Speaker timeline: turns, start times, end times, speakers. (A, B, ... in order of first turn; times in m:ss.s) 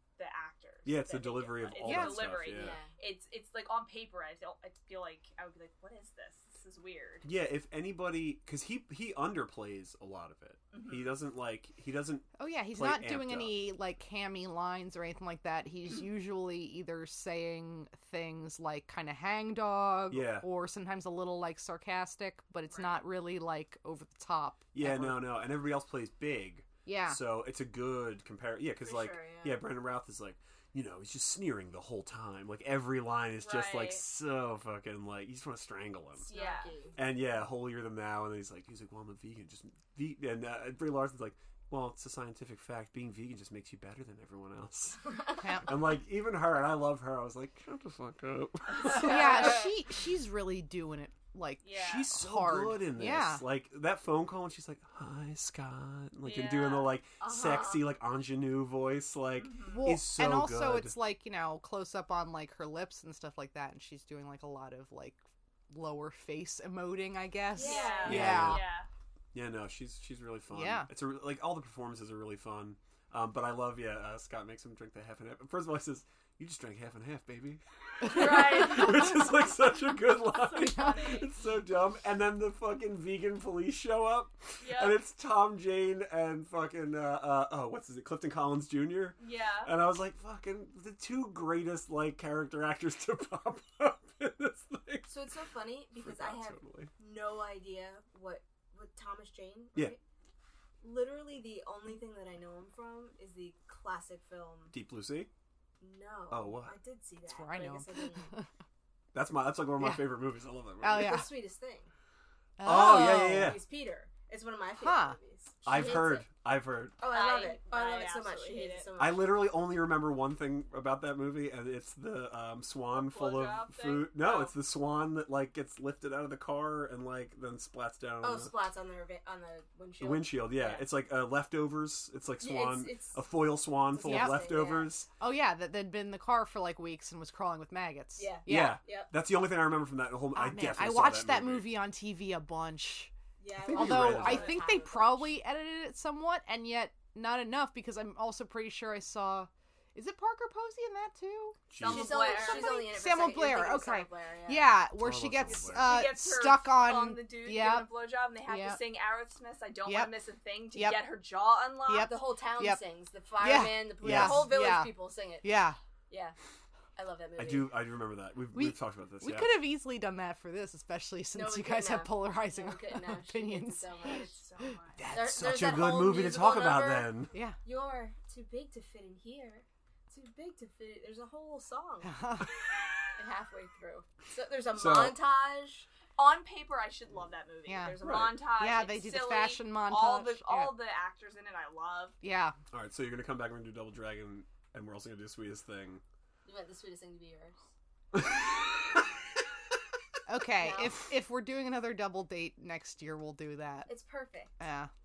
0:00.2-0:07.3 A
0:00.8-0:02.8 B
0:01.8-0:02.2 C
0:02.5-0:02.9 D
0:07.2-0:13.5 B
0:10.7-0:11.2 A
0:12.4-0:25.2 C
0:20.1-0:20.5 B
0:24.7-0:36.3 B
0:26.9-0:27.2 C
0:28.8-0:29.6 D
0:33.4-0:34.0 A
0:36.2-0:36.8 A
0:36.3-0:37.0 D
0:37.0-0:49.6 B
0:45.4-0:45.7 C
0:48.9-0:53.4 C
0:49.0-0:49.5 A
0:51.6-0:52.1 A
0:51.8-1:00.9 B
0:56.2-0:57.0 A
0:57.2-0:57.8 D
0:59.4-1:00.0 A
0:59.7-1:08.6 C
1:07.6-1:08.2 D
1:07.6-1:08.9 A
1:08.1-1:08.6 B
1:09.3-1:35.2 B
1:10.5-1:10.9 C
1:18.0-1:19.0 C
1:18.0-1:19.1 A
1:20.3-1:21.3 A
1:20.5-1:21.1 C
1:24.6-1:25.0 A
1:29.2-1:29.7 A
1:35.1-1:40.0 D
1:36.0-1:36.9 B
1:40.8-1:44.7 D
1:44.7-1:45.3 B
1:45.8-1:48.3 D
1:46.3-1:46.8 B
1:47.3-1:48.5 C
1:49.1-1:51.2 B
1:49.8-1:50.2 C
1:50.8-1:51.3 C
1:50.9-1:51.9 D
1:52.6-1:53.6 C
1:52.6-1:53.6 B
1:52.7-1:56.3 D
1:54.8-1:55.2 C
1:55.6-1:57.0 B
1:57.0-1:59.4 D
1:57.1-1:58.9 A
1:59.0-2:08.5 B
2:02.9-2:04.5 A
2:08.2-2:10.8 D
2:10.0-2:15.1 B
2:12.4-2:13.2 D
2:13.9-2:15.0 D
2:14.0-2:14.4 C
2:15.2-2:18.8 C
2:18.2-2:19.1 D
2:18.5-2:21.7 B
2:20.4-2:23.1 C
2:23.4-2:25.4 D
2:23.7-2:31.6 C
2:23.7-2:24.6 B
2:31.7-2:32.3 B
2:31.8-2:32.7 A
2:31.8-2:34.7 D
2:32.3-2:37.9 C
2:35.0-2:35.9 B
2:35.6-2:42.1 A
2:38.4-2:38.8 C
2:39.9-2:40.1 C
2:40.7-2:41.0 C
2:41.9-2:42.8 C
2:41.9-2:45.6 D
2:43.4-2:45.8 C
2:44.0-2:44.6 B
2:46.1-2:46.4 D
2:47.0-2:47.7 D
2:47.4-2:49.7 B
2:48.5-2:54.7 C
2:51.3-2:54.4 D
2:54.0-2:55.0 A
2:55.0-2:57.3 B
2:55.1-3:02.2 D
3:02.0-3:02.5 C
3:03.2-3:05.9 D
3:04.7-3:05.2 B
3:06.2-3:12.2 A
3:07.7-3:08.0 C
3:08.0-3:08.4 B
3:08.5-3:10.7 C
3:12.2-3:12.6 C
3:12.7-3:16.0 B
3:16.4-3:17.6 D
3:18.1-3:19.0 B
3:20.3-3:23.9 C
3:20.6-3:21.0 D
3:23.9-3:24.5 D
3:24.6-3:24.9 C